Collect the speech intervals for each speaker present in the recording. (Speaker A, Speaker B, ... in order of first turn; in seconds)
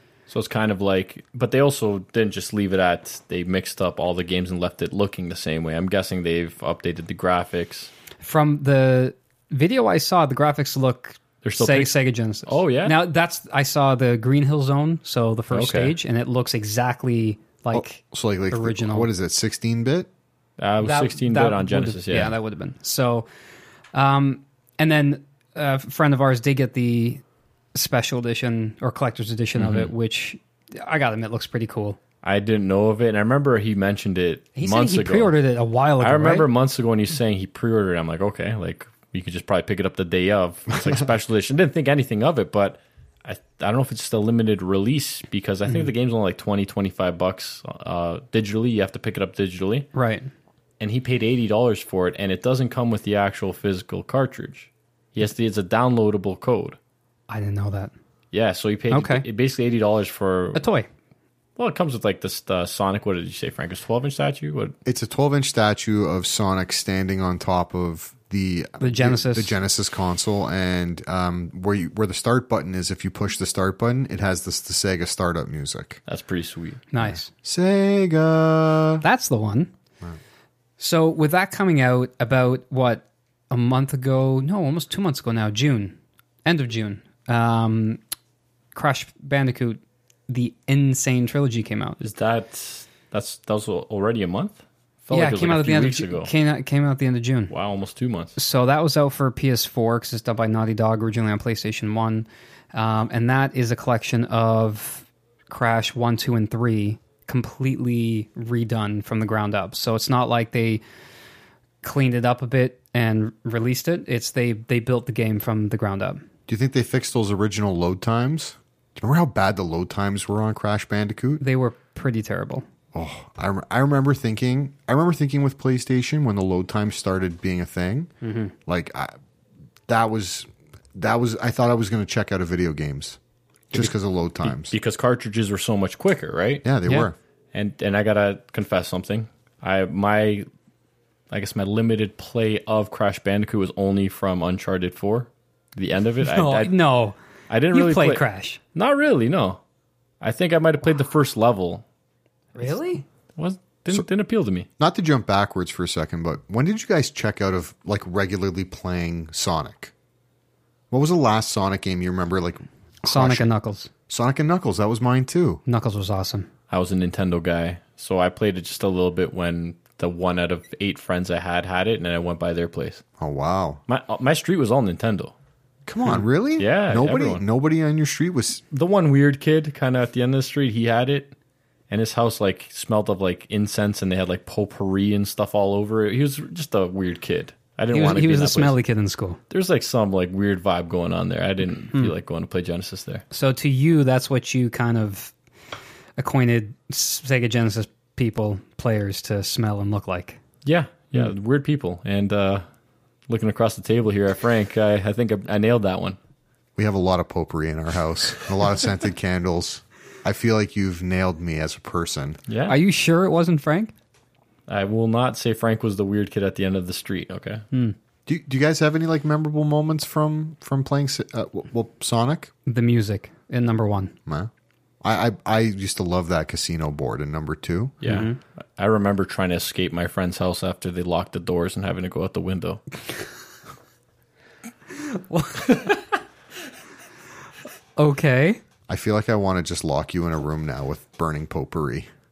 Speaker A: 0.3-7.9, 11.4-11.9, 12.4-13.0, 15.5-15.9, 20.6-22.4, 29.6-29.9, 32.2-35.4, 36.0-49.9, 50.8-56.8, 58.3-60.6, 61.6-64.8, 76.1-76.9, 92.0-96.3, 97.5-98.4, 133.7-136.7, 137.5-140.4, 141.3-146.7, 147.5-149.6, 150.2-151.8, 153.4-154.7, 166.7-173.0, 173.9-175.3, 176.6-177.4, 178.7-181.3, 181.9-188.8, 189.5-193.2, 200.6-202.6, 203.3-206.2, 212.5-212.8, 214.7-217.6, 228.0-232.8
Speaker B: 8.2-19.1, 20.8-23.3, 23.9-27.2, 27.8-32.0, 34.6-36.5, 49.9-50.3, 57.3-57.9, 58.9-59.2, 60.5-60.9, 68.8-69.5, 76.9-77.3, 79.0-79.7, 80.8-88.0, 88.7-92.0, 95.1-97.5, 98.4-110.8, 111.8-116.2, 121.4-122.6, 128.2-128.5, 146.2-147.2, 147.7-148.6, 152.6-153.0, 163.0-163.9, 165.7-166.5, 187.9-189.4, 193.3-195.3, 196.2-200.4, 212.7-213.9, 222.7-224.1, 228.0-228.4, 235.1-236.0, 238.0-238.6
Speaker C: 17.7-20.1, 64.9-76.0, 77.0-79.0, 116.5-121.4, 122.9-128.1, 128.7-129.1, 129.9-133.2, 133.7-134.7, 136.6-137.1, 154.8-159.9, 160.9-163.5, 164.1-165.6, 173.2-173.8, 175.9-178.6, 206.8-212.4, 218.3-222.5, 225.0-227.9, 238.9-242.1